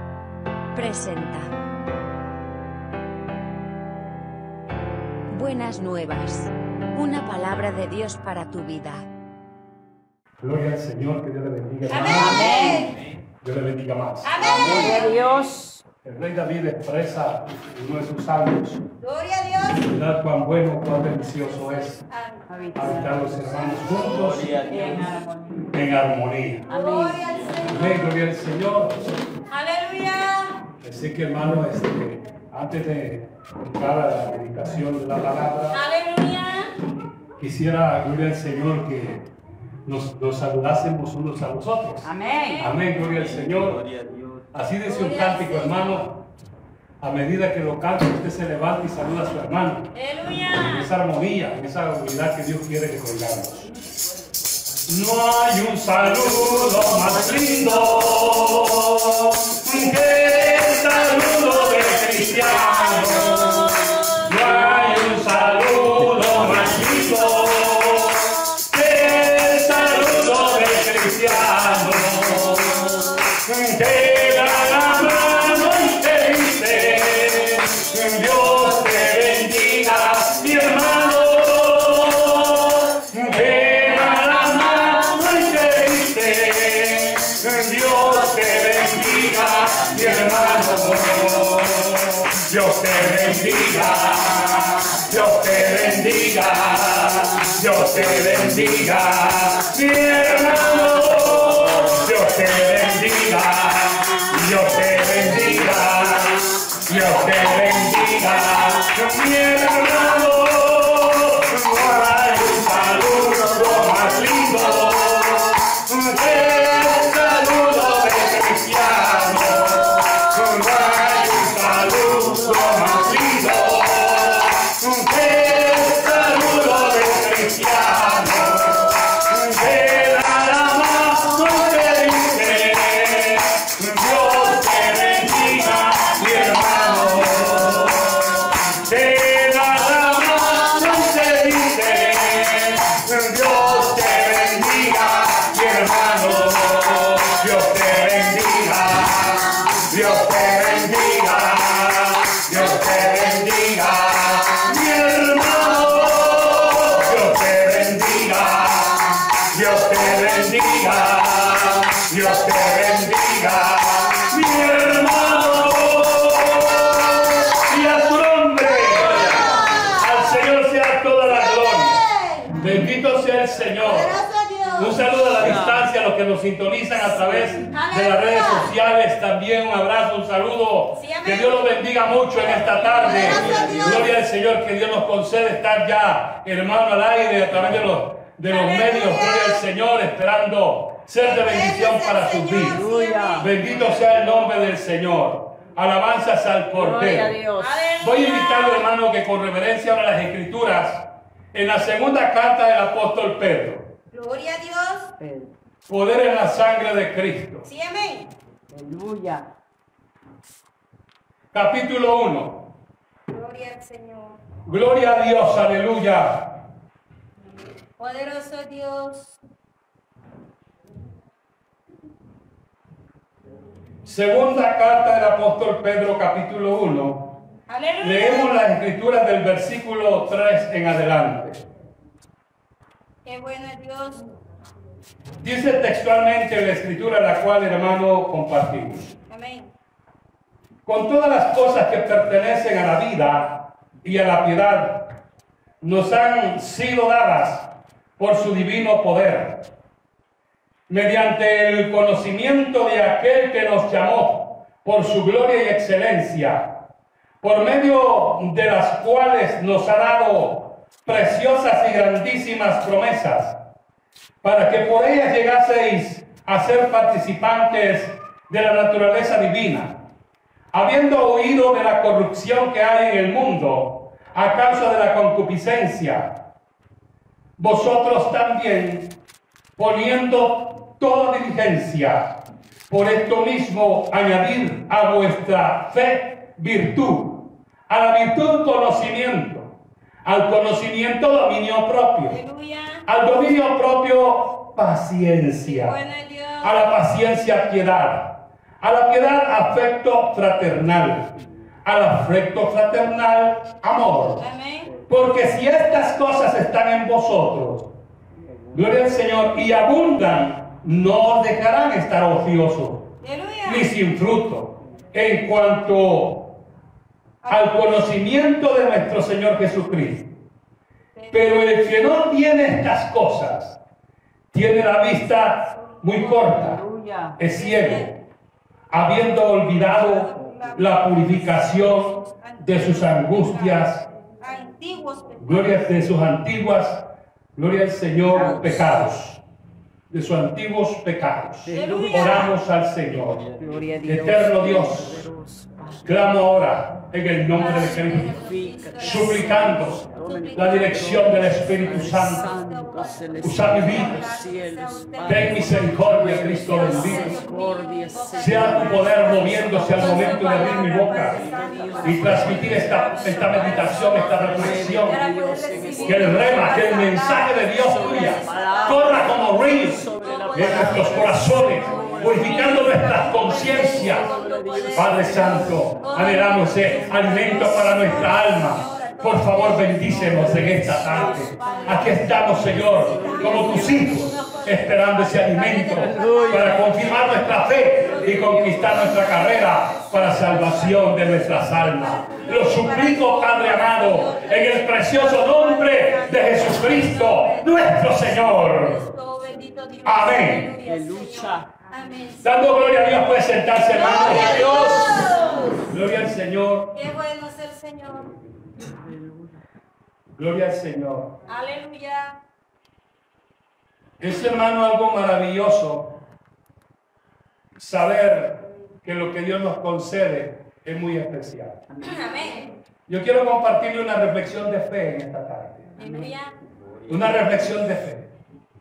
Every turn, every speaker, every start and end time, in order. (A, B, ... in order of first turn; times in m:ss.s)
0:00.7-0:01.5 A
0:05.3-0:09.0 A
0:10.4-0:12.8 B
0:11.9-0:13.0 C
0:12.0-0:12.9 D
0:13.4-0:14.7 B
0:14.2-0:15.3 C
0:14.4-0:15.4 E
0:14.6-0:15.8 D
0:16.0-0:18.8 B
0:19.0-0:19.9 C
0:19.8-0:22.0 B
0:21.0-0:22.9 C
0:22.5-0:23.4 D
0:22.8-0:24.7 B
0:23.8-0:25.1 E
0:24.7-0:25.7 D
0:25.7-0:26.7 B
0:26.7-0:27.2 D
0:26.7-0:28.1 C
0:27.3-0:27.6 E
0:27.6-0:29.0 B
0:29.5-0:30.6 C
0:30.8-0:35.8 B
0:35.7-0:36.7 C
0:37.4-0:39.3 B
0:39.8-0:42.1 B
0:42.0-0:42.7 D
0:42.2-0:42.7 C
0:42.6-0:43.8 B
0:42.8-0:44.5 E
0:44.5-0:46.2 B
0:44.8-0:46.0 C
0:47.0-0:49.9 B
0:49.9-0:50.9 C
0:50.5-0:53.7 B
0:54.9-2:54.2 B
0:56.1-0:58.1 D
1:00.5-1:05.2 C
1:05.4-1:05.8 D
1:06.3-1:08.6 C
1:09.5-1:13.2 C
1:14.7-1:16.1 C
1:23.3-1:24.8 D
1:24.2-1:25.3 C
1:30.4-1:30.9 D
1:45.0-1:45.4 C
1:47.3-1:49.1 C
1:53.0-1:55.6 C
1:56.3-1:58.1 C
1:59.6-2:00.1 C
2:02.5-2:03.2 C
2:14.3-2:17.8 C
2:20.4-2:20.9 C
2:22.0-2:22.7 C
2:26.0-2:27.2 C
2:29.1-2:29.8 C
2:45.0-2:45.5 C
2:46.9-2:47.7 C
2:48.6-2:50.4 C
2:51.2-2:52.6 C
2:53.7-2:55.0 C
2:54.7-3:12.8 B
2:55.3-2:55.9 D
2:57.0-2:57.7 D
2:57.7-2:58.7 C
3:01.0-3:01.7 C
3:02.3-3:04.1 C
3:03.1-3:04.1 E
3:03.4-3:03.9 D
3:08.5-3:09.6 C
3:11.2-3:13.6 C
3:12.6-3:13.5 D
3:13.4-3:17.4 B
3:16.7-3:18.0 D
3:17.6-3:18.9 C
3:18.0-3:23.9 B
3:24.1-3:25.1 C
3:25.2-3:25.5 D
3:25.9-3:27.7 B
3:27.6-3:28.3 C
3:28.7-3:29.5 D
3:31.5-3:32.6 B
3:33.3-3:34.4 C
3:34.6-3:36.5 B
3:38.0-3:39.3 C
3:44.0-3:47.3 B
3:47.7-3:48.5 C
3:48.0-3:51.6 B
3:53.2-3:54.2 C
3:55.4-3:59.1 B
3:59.3-3:59.7 C
4:00.8-4:05.1 B
4:05.8-4:09.6 B
4:10.9-4:16.7 B
4:17.4-4:23.6 B
4:24.4-4:30.0 B
4:30.7-4:36.3 B
4:37.6-4:39.1 B
4:39.8-4:42.3 B
4:42.9-4:49.7 B
4:50.2-4:52.4 B
4:52.3-4:53.0 C
4:53.0-4:56.0 B
4:55.6-4:56.8 C
4:56.6-5:01.3 B
5:01.8-5:04.4 B
5:04.4-5:04.9 C
5:05.1-5:07.9 B
5:08.5-5:08.8 E
5:08.7-5:13.1 B
5:13.2-5:13.9 C
5:13.6-5:16.5 B
5:17.4-5:18.0 C
5:17.5-5:20.3 B
5:21.1-5:21.7 C
5:21.3-5:23.8 B
5:24.5-5:26.8 B
5:25.8-5:26.6 C
5:26.4-5:27.4 D
5:27.4-5:28.1 B
5:27.5-5:28.2 C
5:28.9-5:34.0 B
5:29.7-5:36.0 C
5:35.4-5:39.4 B
5:38.3-5:39.0 D
5:40.1-5:43.4 B
5:41.6-5:42.5 D
5:41.7-5:42.5 C
5:43.2-5:44.0 E
5:43.6-5:46.1 D
5:44.0-5:45.2 B
5:46.0-5:48.4 B
5:47.5-6:43.1 C
5:48.2-6:07.3 D
5:49.0-5:52.5 B
5:53.4-5:54.2 B
5:55.2-5:57.4 B
5:58.4-6:01.4 B
6:02.0-6:05.2 B
6:06.0-6:14.3 B
6:07.8-6:16.0 D
6:14.9-6:39.1 B
6:16.8-6:17.9 D
6:20.2-6:24.3 D
6:25.8-6:26.9 D
6:28.2-6:29.1 D
6:40.0-6:40.7 B
6:40.8-6:41.7 D
6:42.4-6:46.9 B
6:43.9-6:45.9 C
6:44.4-6:45.7 D
6:46.9-6:48.4 C
6:48.8-6:49.6 D
6:50.4-6:51.4 B
6:51.5-6:52.4 C
6:54.2-6:56.1 B
6:57.8-7:01.8 B
7:01.9-7:02.2 D
7:02.0-7:02.7 C
7:03.1-7:05.9 B
7:06.0-7:06.3 D
7:06.0-7:06.5 C
7:06.7-7:07.8 E
7:07.1-7:08.3 B